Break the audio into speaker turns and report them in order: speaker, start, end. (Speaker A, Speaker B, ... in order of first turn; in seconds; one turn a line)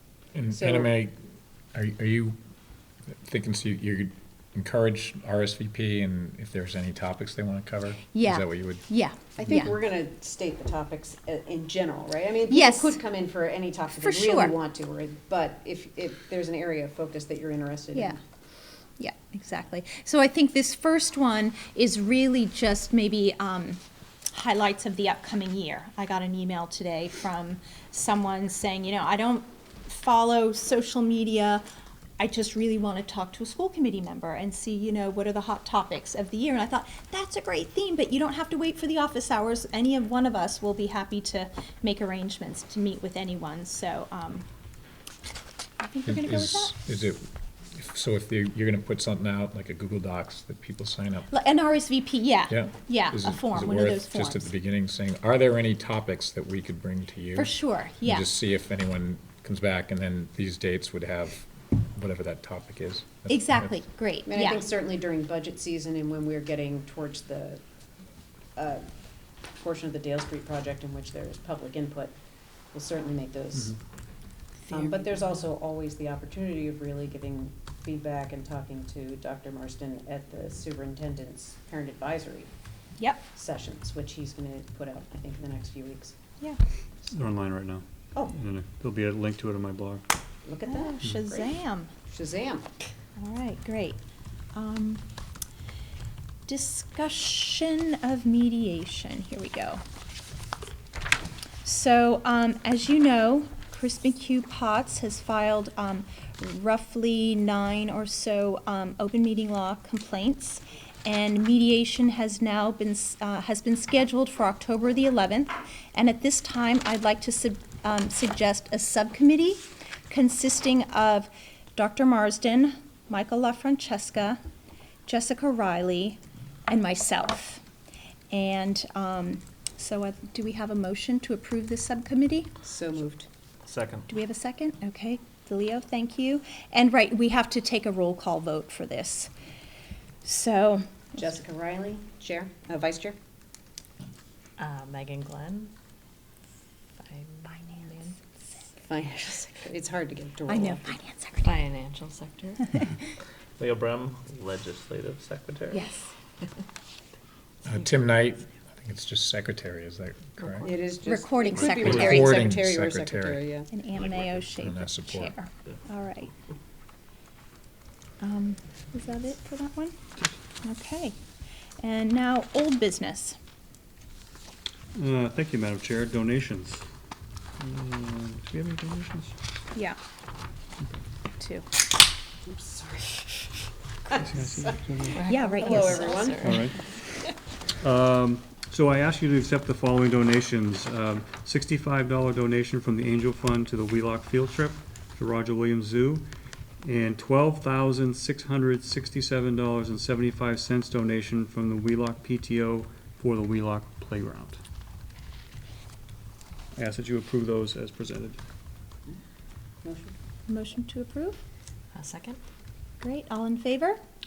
Speaker A: 0.3-1.1
Speaker B: 0.5-0.9
Speaker A: 1.7-2.4
Speaker A: 3.2-8.8
Speaker C: 8.1-9.7
Speaker B: 9.4-18.2
Speaker C: 12.5-13.0
Speaker C: 13.9-14.6
Speaker C: 19.0-31.6
Speaker C: 32.2-44.5
Speaker C: 45.8-46.7
Speaker A: 46.1-51.3
Speaker C: 51.3-54.5
Speaker A: 52.5-63.8
Speaker C: 57.4-58.3
Speaker C: 63.3-64.6
Speaker B: 64.2-67.6
Speaker B: 68.5-68.8
Speaker B: 69.6-72.1
Speaker B: 72.7-73.8
Speaker B: 74.7-82.5
Speaker C: 83.0-83.2
Speaker B: 83.3-86.1
Speaker D: 87.1-90.0
Speaker B: 90.4-91.5
Speaker C: 90.7-91.9
Speaker B: 92.1-92.7
Speaker C: 93.2-94.0
Speaker C: 94.5-95.0
Speaker C: 96.5-99.8
Speaker C: 101.6-124.4
Speaker C: 125.1-127.6
Speaker C: 128.3-132.5
Speaker B: 132.6-133.3
Speaker E: 133.7-134.0
Speaker C: 134.1-139.3
Speaker C: 140.2-140.8
Speaker B: 141.2-143.2
Speaker F: 144.6-145.7
Speaker F: 147.0-148.2
Speaker B: 148.8-150.9
Speaker C: 150.5-151.6
Speaker F: 151.4-152.7
Speaker E: 153.6-155.8
Speaker C: 155.7-156.1
Speaker A: 157.6-160.7
Speaker B: 160.6-163.7
Speaker C: 161.1-162.5
Speaker A: 161.7-163.4
Speaker C: 163.7-166.3
Speaker A: 164.6-165.3
Speaker C: 168.2-169.9
Speaker C: 170.6-171.2
Speaker C: 171.8-173.4
Speaker D: 174.9-176.9
Speaker D: 177.6-179.3
Speaker C: 181.3-181.6
Speaker B: 182.5-183.4
Speaker D: 184.1-185.2
Speaker F: 185.2-186.7
Speaker C: 185.2-186.2
Speaker B: 185.3-186.7
Speaker D: 186.4-186.8
Speaker D: 187.8-196.3
Speaker D: 196.8-204.6
Speaker D: 206.7-208.4
Speaker B: 209.8-210.1
Speaker C: 210.5-211.4
Speaker F: 211.9-212.4
Speaker C: 213.0-214.0